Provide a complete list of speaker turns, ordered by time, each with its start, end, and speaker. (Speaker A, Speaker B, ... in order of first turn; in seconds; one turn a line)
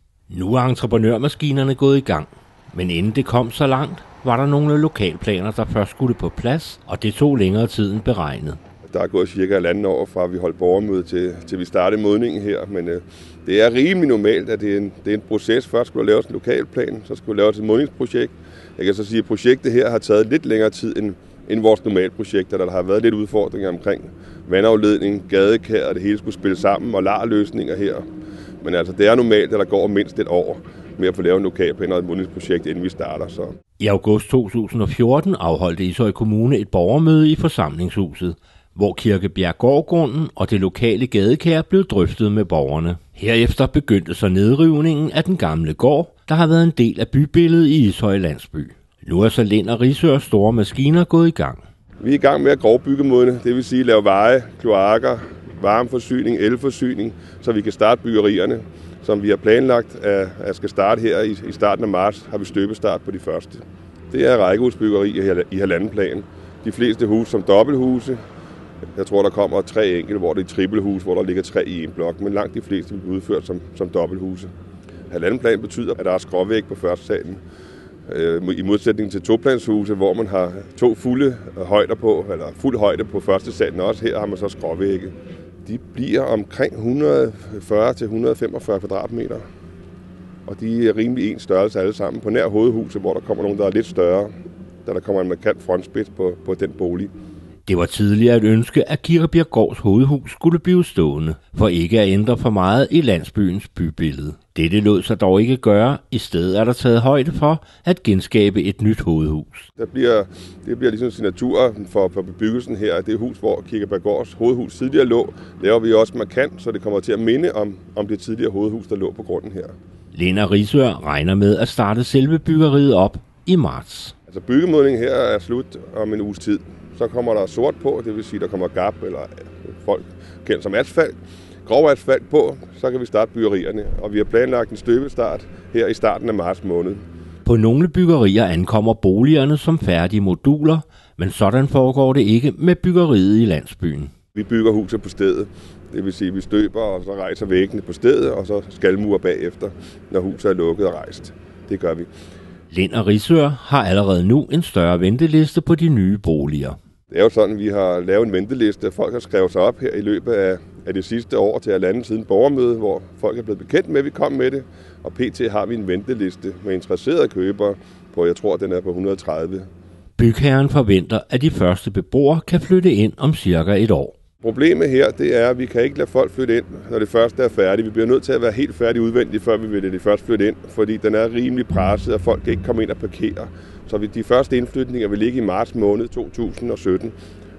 Speaker A: 0.3-8.6
Speaker B: 8.8-28.0
Speaker B: 28.6-33.5
Speaker A: 33.8-51.6
Speaker B: 52.0-68.2
Speaker B: 69.0-74.5
Speaker B: 75.1-77.4
Speaker B: 78.1-85.1
Speaker B: 85.6-89.4
Speaker B: 90.5-94.3
Speaker B: 94.8-97.1
Speaker A: 97.7-109.7
Speaker B: 109.8-119.7
Speaker A: 120.1-124.1
Speaker B: 124.3-131.1
Speaker B: 131.6-137.0
Speaker A: 137.4-144.1
Speaker B: 144.3-152.1
Speaker A: 152.7-156.8
Speaker B: 157.1-169.7
Speaker A: 170.2-174.1
Speaker B: 174.4-187.1